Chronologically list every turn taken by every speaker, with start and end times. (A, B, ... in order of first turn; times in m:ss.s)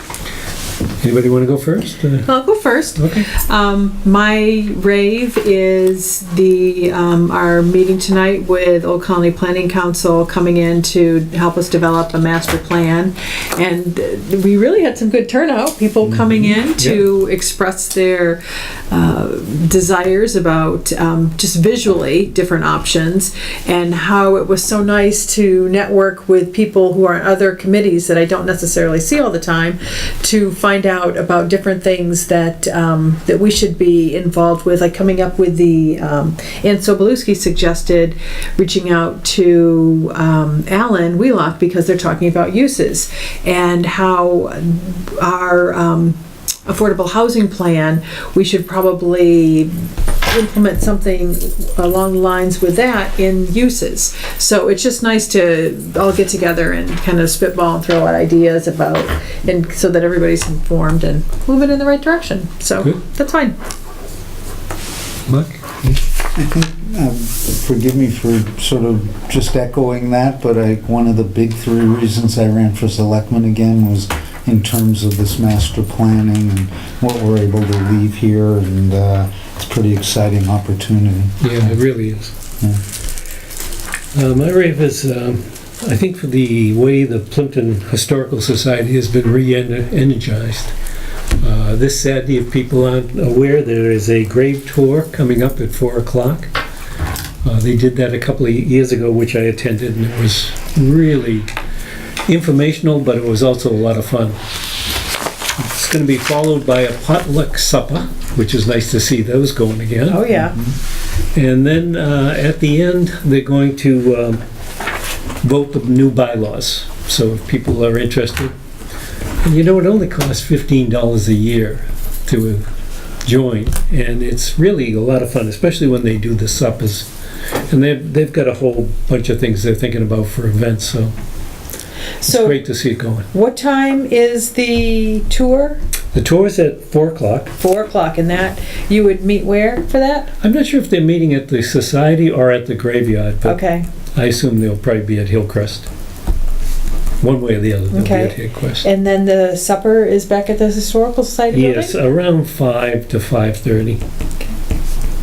0:01.0-0:03.3 A
0:02.2-1:03.6 B
0:16.0-0:17.0 A
1:05.3-1:05.8 A
1:05.8-1:21.8 C
1:21.4-1:22.3 A
1:24.1-1:30.7 A
1:31.4-1:36.5 A
1:37.4-1:41.5 A
1:42.3-1:44.4 A
1:45.6-1:50.3 A
1:50.1-1:50.6 B
1:50.3-1:50.7 C
1:51.3-1:54.4 A
1:55.4-1:58.5 A
1:59.4-2:02.6 A
2:03.2-2:07.1 A
2:07.7-2:11.1 A
2:12.2-2:12.6 B
2:12.2-2:13.3 A
2:13.3-2:15.8 B
2:16.1-2:17.5 A
2:17.6-2:20.3 B
2:20.4-2:23.6 A
2:23.4-2:23.8 B
2:24.2-2:25.9 A
2:27.2-2:28.9 A
2:27.9-2:32.0 B
2:31.5-2:34.0 A